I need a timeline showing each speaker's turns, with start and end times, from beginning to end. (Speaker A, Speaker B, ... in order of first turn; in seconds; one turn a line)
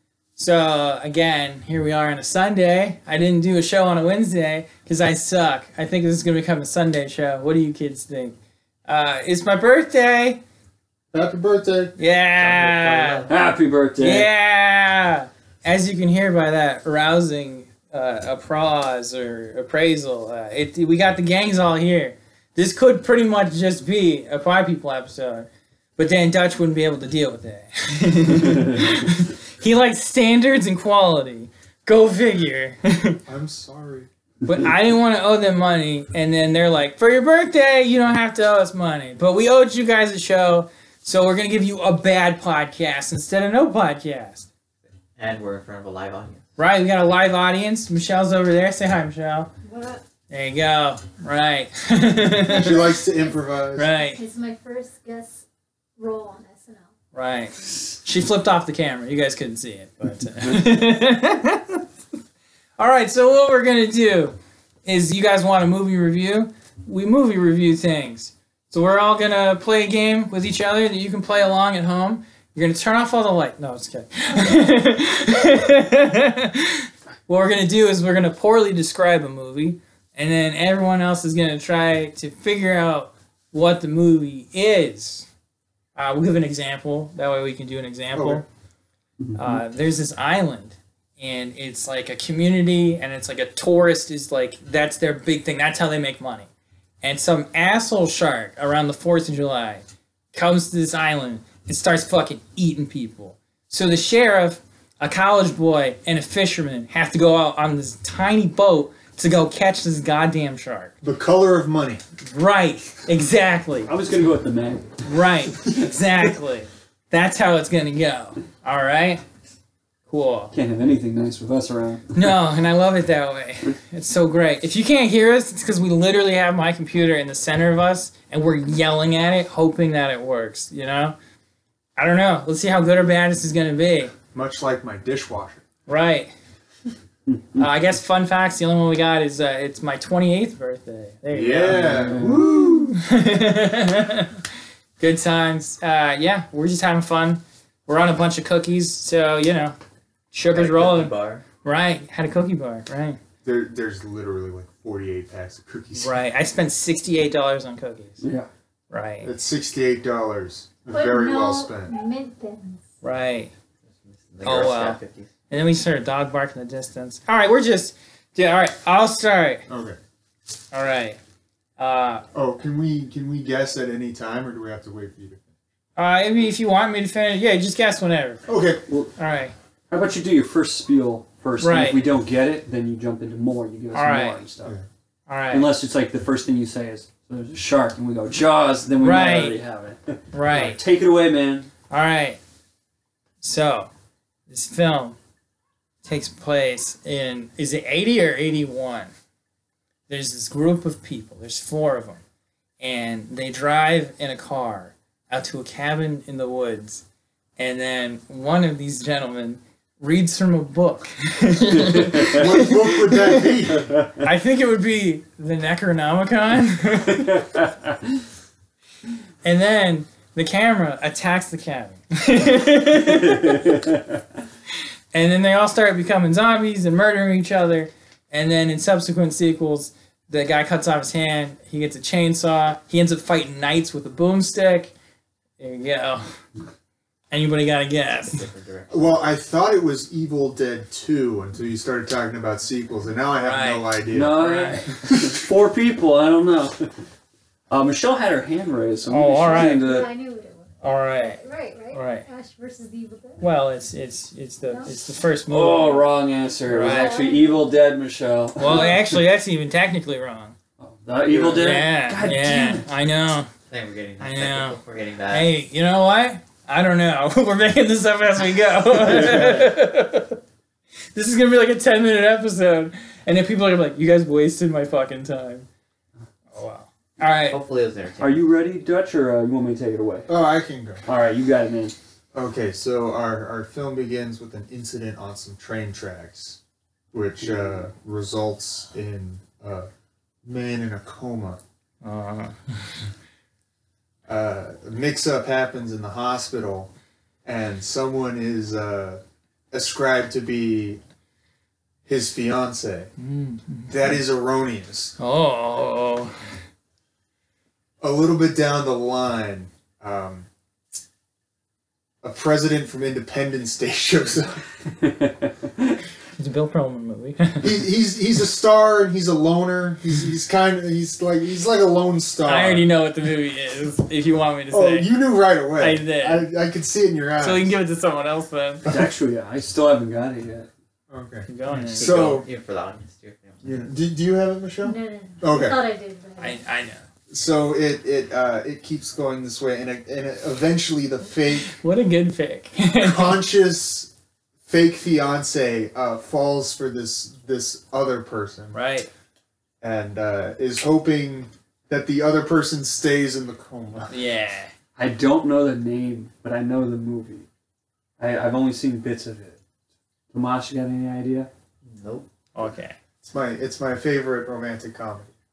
Speaker A: 0.3-10.4
Speaker B: 11.1-13.3
Speaker A: 12.0-13.3
Speaker C: 13.3-14.3
Speaker A: 14.0-33.2
Speaker B: 33.3-34.1
Speaker A: 34.4-44.5
Speaker D: 45.2-46.4
Speaker A: 46.6-49.5
Speaker E: 49.6-50.0
Speaker A: 50.3-52.8
Speaker B: 52.4-53.9
Speaker A: 53.8-54.2
Speaker E: 54.0-55.4
Speaker E: 56.0-56.9
Speaker A: 57.1-61.8
Speaker C: 60.4-60.7
Speaker A: 62.8-85.3
Speaker A: 85.9-88.4
Speaker B: 88.1-88.4
Speaker C: 89.2-89.6
Speaker A: 89.4-96.5
Speaker A: 97.0-110.9
Speaker B: 111.0-112.0
Speaker A: 112.2-113.9
Speaker C: 113.9-115.0
Speaker A: 115.0-119.2
Speaker A: 120.1-120.5
Speaker C: 120.5-122.1
Speaker A: 122.1-131.2
Speaker A: 132.0-134.1
Speaker B: 134.3-135.6
Speaker A: 135.9-136.3
Speaker C: 137.3-137.6
Speaker A: 137.6-144.3
Speaker B: 141.3-142.9
Speaker C: 141.7-142.5
Speaker A: 145.0-149.8
Speaker A: 150.3-153.2
Speaker D: 150.5-151.4
Speaker B: 153.4-156.1
Speaker A: 155.9-158.2
Speaker C: 158.2-158.5
Speaker A: 158.9-159.3
Speaker B: 159.2-161.9
Speaker E: 160.9-162.8
Speaker A: 163.0-163.5
Speaker D: 163.9-165.3
Speaker A: 164.4-169.6
Speaker B: 169.7-170.0
Speaker A: 170.7-171.2
Speaker A: 171.8-172.2
Speaker B: 172.3-175.4
Speaker A: 175.9-178.4
Speaker B: 178.4-178.8
Speaker A: 179.2-179.5
Speaker C: 179.9-184.7
Speaker A: 181.6-182.0
Speaker A: 183.9-184.4
Speaker A: 185.3-185.7
Speaker C: 185.5-191.7
Speaker A: 189.0-189.6
Speaker A: 190.3-190.8
Speaker A: 191.9-192.4
Speaker A: 193.4-193.9
Speaker A: 194.5-195.2
Speaker A: 196.0-199.1
Speaker A: 200.1-202.2
Speaker A: 202.8-207.0
Speaker A: 207.6-213.5
Speaker B: 212.2-213.9
Speaker A: 214.2-217.4
Speaker A: 219.4-223.7
Speaker C: 223.3-224.2
Speaker A: 225.1-234.9
Speaker A: 235.6-236.4
Speaker A: 237.3-238.4
Speaker D: 238.2-239.4
Speaker B: 238.9-245.4
Speaker A: 243.4-244.8
Speaker C: 244.1-246.9
Speaker C: 247.7-250.1
Speaker A: 249.1-249.9
Speaker E: 249.5-253.4
Speaker A: 250.8-252.2
Speaker A: 253.4-256.1
Speaker E: 254.7-254.9
Speaker C: 255.5-259.2
Speaker A: 256.7-257.2
Speaker E: 256.7-257.8
Speaker A: 258.6-260.5
Speaker C: 260.8-262.9
Speaker A: 261.3-263.5
Speaker D: 263.7-265.5
Speaker A: 264.2-270.4
Speaker D: 269.2-269.7
Speaker A: 271.1-275.7
Speaker A: 276.5-277.6
Speaker D: 277.5-278.4
Speaker C: 278.2-280.3
Speaker B: 280.3-281.0
Speaker C: 281.1-281.9
Speaker B: 282.3-286.6
Speaker B: 287.1-289.9
Speaker B: 290.4-291.6
Speaker A: 292.0-293.1
Speaker B: 294.3-296.9
Speaker B: 297.4-301.0
Speaker B: 302.1-303.1
Speaker A: 303.2-304.2
Speaker B: 303.9-305.1
Speaker A: 305.2-306.4
Speaker B: 308.0-310.5
Speaker B: 312.2-314.6
Speaker C: 315.0-315.9
Speaker A: 316.4-317.8
Speaker B: 317.6-322.9
Speaker A: 322.4-325.1
Speaker B: 324.7-327.8
Speaker A: 325.8-326.5
Speaker A: 327.4-328.9
Speaker C: 328.9-330.7
Speaker B: 331.1-332.5
Speaker A: 331.4-332.4
Speaker D: 331.8-333.8
Speaker B: 333.6-335.8
Speaker E: 334.8-336.6
Speaker A: 336.4-337.0
Speaker B: 337.3-341.7
Speaker A: 341.7-343.4
Speaker B: 342.9-344.1
Speaker B: 344.6-348.8
Speaker A: 348.7-349.1
Speaker B: 349.8-354.1
Speaker A: 354.1-354.7
Speaker C: 354.9-357.5
Speaker C: 358.2-359.6
Speaker C: 360.3-361.5
Speaker D: 361.8-362.3
Speaker A: 362.5-362.9
Speaker B: 363.2-365.3